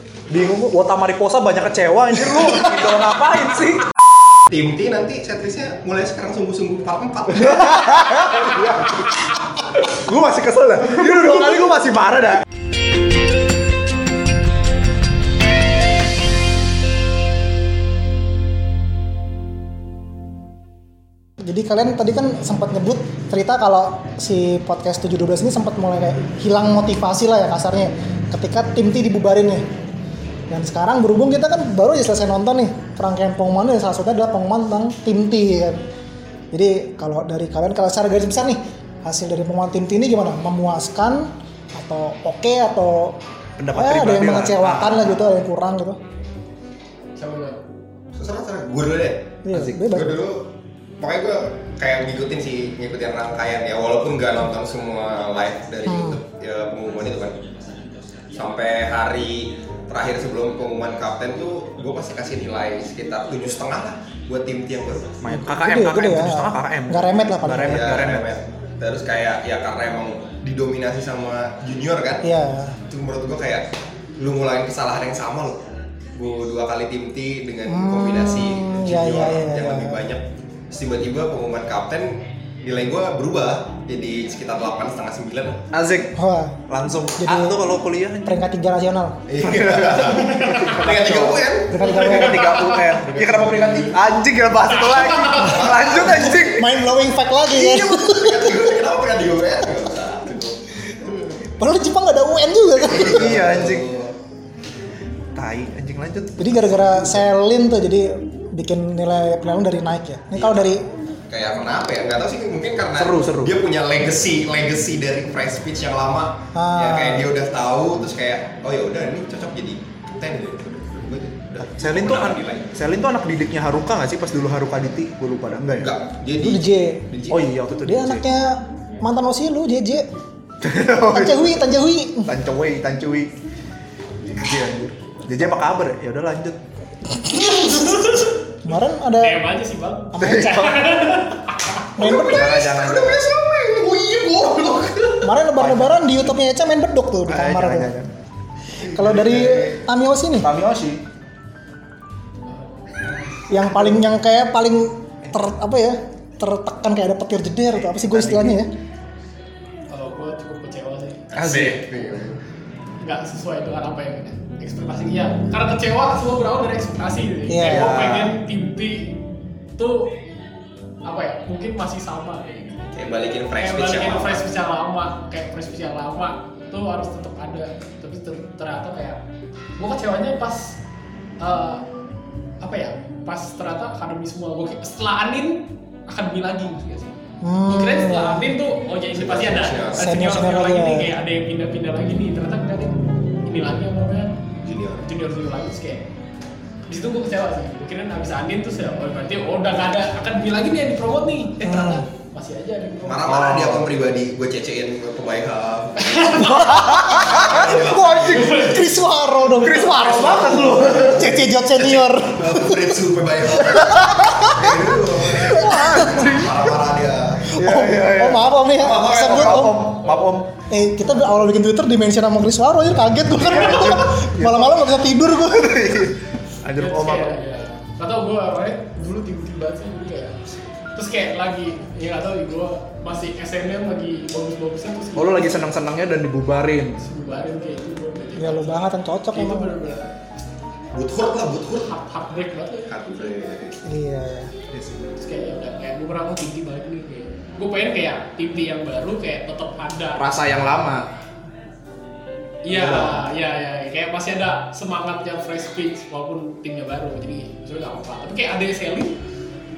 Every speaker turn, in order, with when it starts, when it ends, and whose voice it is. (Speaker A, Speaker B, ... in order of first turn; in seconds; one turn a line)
Speaker A: 0.3-3.9
Speaker B: 4.5-8.1
Speaker A: 7.4-9.2
Speaker A: 9.8-12.4
Speaker C: 21.4-29.6
Speaker C: 30.5-35.8
Speaker C: 36.5-43.2
Speaker A: 43.6-45.1
Speaker C: 43.7-46.0
Speaker D: 47.1-47.6
Speaker B: 48.1-49.3
Speaker C: 49.4-50.2
Speaker A: 49.5-49.9
Speaker B: 49.8-50.5
Speaker B: 51.0-57.4
Speaker C: 55.9-56.2
Speaker B: 58.3-65.2
Speaker A: 65.2-68.3
Speaker C: 65.3-67.9
Speaker B: 67.5-72.2
Speaker C: 72.2-72.8
Speaker B: 72.9-75.6
Speaker B: 76.2-85.6
Speaker C: 77.7-80.0
Speaker A: 85.7-86.2
Speaker C: 86.2-86.6
Speaker A: 86.7-88.5
Speaker C: 87.2-87.6
Speaker C: 88.2-89.2
Speaker B: 89.3-91.8
Speaker A: 89.4-96.8
Speaker C: 91.7-92.4
Speaker D: 91.8-93.0
Speaker B: 93.0-94.0
Speaker D: 94.7-95.8
Speaker B: 95.4-96.4
Speaker C: 96.0-98.6
Speaker B: 97.5-101.3
Speaker C: 101.5-103.3
Speaker B: 102.8-104.1
Speaker A: 102.9-103.9
Speaker A: 105.3-107.2
Speaker C: 106.4-110.8
Speaker B: 110.3-110.7
Speaker B: 111.3-122.7
Speaker A: 112.9-113.6
Speaker C: 116.5-117.3
Speaker A: 121.6-125.9
Speaker B: 125.8-127.5
Speaker C: 126.3-127.1
Speaker A: 127.3-128.2
Speaker C: 127.8-130.1
Speaker A: 130.6-131.6
Speaker C: 131.0-132.3
Speaker A: 132.2-133.3
Speaker A: 134.3-136.6
Speaker C: 137.3-139.4
Speaker D: 137.3-138.3
Speaker D: 139.2-141.9
Speaker C: 140.1-140.8
Speaker A: 140.2-140.8
Speaker C: 141.9-142.6
Speaker B: 142.0-145.3
Speaker A: 142.0-143.2
Speaker C: 145.2-147.9
Speaker A: 145.6-146.2
Speaker A: 147.3-148.1
Speaker C: 148.8-150.5
Speaker B: 148.8-149.7
Speaker A: 150.4-151.0
Speaker D: 152.5-153.5
Speaker C: 153.5-158.7
Speaker A: 157.9-158.7
Speaker D: 159.9-161.2
Speaker B: 161.3-162.4
Speaker A: 161.3-161.8
Speaker D: 163.0-169.2
Speaker C: 167.5-168.0
Speaker A: 167.6-168.4
Speaker D: 169.8-170.1
Speaker D: 171.0-172.9
Speaker B: 172.9-174.4
Speaker D: 173.6-179.2
Speaker D: 179.8-180.8
Speaker D: 181.4-181.8
Speaker D: 182.6-194.4
Speaker C: 187.4-188.5
Speaker B: 189.1-190.1
Speaker C: 189.9-191.1
Speaker B: 194.6-195.0
Speaker D: 195.0-196.0
Speaker D: 196.9-203.3
Speaker C: 201.6-202.0
Speaker B: 203.0-208.7
Speaker A: 203.2-203.9
Speaker D: 206.0-206.7
Speaker C: 206.5-213.0
Speaker A: 206.5-208.7
Speaker D: 208.3-208.9
Speaker A: 209.6-211.3
Speaker D: 209.8-210.6
Speaker B: 211.9-217.6
Speaker C: 213.6-214.8
Speaker C: 215.4-216.3
Speaker A: 215.7-216.7
Speaker C: 217.5-219.9
Speaker A: 217.5-218.5
Speaker B: 218.8-219.8
Speaker A: 219.2-220.5
Speaker C: 220.7-225.9
Speaker A: 223.5-224.8
Speaker A: 225.5-227.3
Speaker D: 226.8-230.3
Speaker D: 230.9-235.6
Speaker A: 235.2-237.0
Speaker D: 237.0-240.1
Speaker C: 238.4-239.8
Speaker B: 240.9-241.9
Speaker D: 241.9-242.9
Speaker B: 242.9-243.8
Speaker C: 243.8-244.5
Speaker A: 244.7-245.1
Speaker D: 245.2-250.3
Speaker A: 250.2-251.0
Speaker D: 252.6-259.2
Speaker A: 252.7-253.2